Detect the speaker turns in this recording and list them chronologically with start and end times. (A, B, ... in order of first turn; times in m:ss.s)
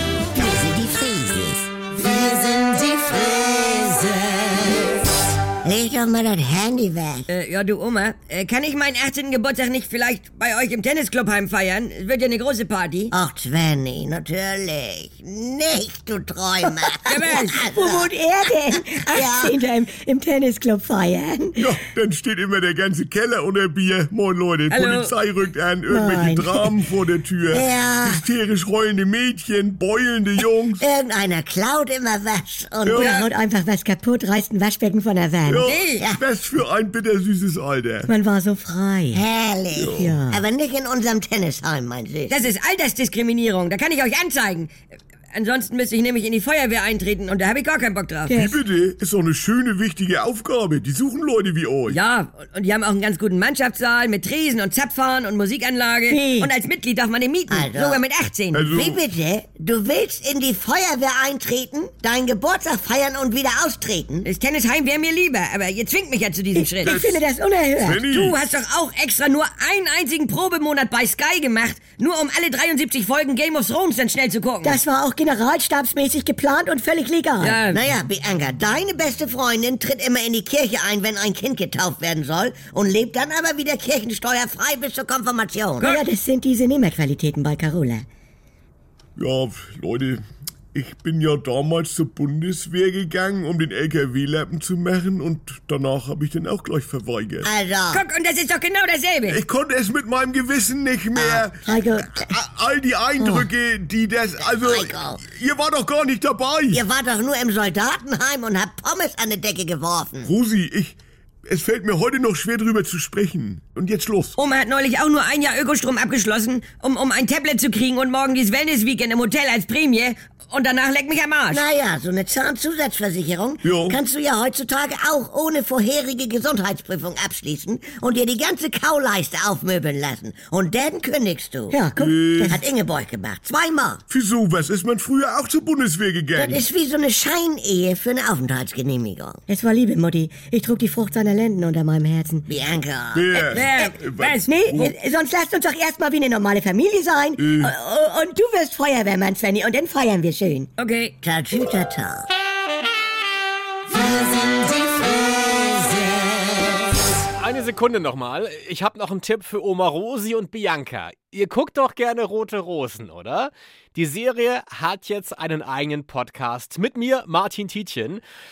0:00.4-0:05.0 A
0:05.6-0:07.3 A
0:07.3-0:13.1 B
0:13.1-0:18.1 A
0:16.7-0:21.7 C
0:17.1-0:17.6 B
0:18.8-0:19.6 A
0:21.6-0:30.8 D
0:24.7-0:25.1 B
0:25.9-0:26.8 C
0:27.5-0:28.2 A
0:30.8-0:33.1 A
0:32.8-0:33.2 D
0:32.9-0:35.8 C
0:35.5-0:38.1 D
0:35.7-0:36.0 B
0:35.9-0:36.2 A
0:38.0-0:39.2 C
0:39.1-0:42.4 A
0:39.7-0:40.1 D
0:40.0-0:40.4 C
0:42.3-0:44.7 B
0:45.3-0:48.3 B
0:48.3-0:48.6 C
0:48.3-0:52.0 D
0:51.9-0:58.6 B
0:56.1-0:56.5 C
0:57.5-0:58.0 A
0:58.5-0:59.0 D
0:58.7-1:04.3 A
1:04.2-1:06.9 B
1:06.6-1:08.0 C
1:06.8-1:07.2 D
1:07.8-1:08.4 D
1:08.1-1:14.8 B
1:14.6-1:17.6 C
1:17.7-1:25.9 A
1:25.8-1:28.0 C
1:29.2-1:30.2 D
1:30.7-1:37.5 D
1:37.4-1:38.0 A
1:37.9-1:39.4 B
1:39.3-1:46.8 D
1:41.2-1:41.8 A
1:41.7-1:42.3 C
1:43.2-1:43.4 C
1:44.4-1:45.2 A
1:46.7-1:50.3 A
1:50.2-1:54.4 D
1:54.4-2:01.6 B
2:01.5-2:11.8 A
2:03.6-2:04.0 D
2:11.7-2:12.6 C
2:12.0-2:12.6 D
2:12.5-2:14.0 A
2:14.1-2:16.6 D
2:16.4-2:19.4 A
2:19.5-2:22.4 C
2:22.5-2:23.6 A
2:23.1-2:24.9 D
2:23.5-2:24.5 B
2:24.4-2:30.7 C
2:27.4-2:27.7 D
2:30.8-2:31.1 B
2:31.2-2:32.3 A
2:37.3-2:48.2 E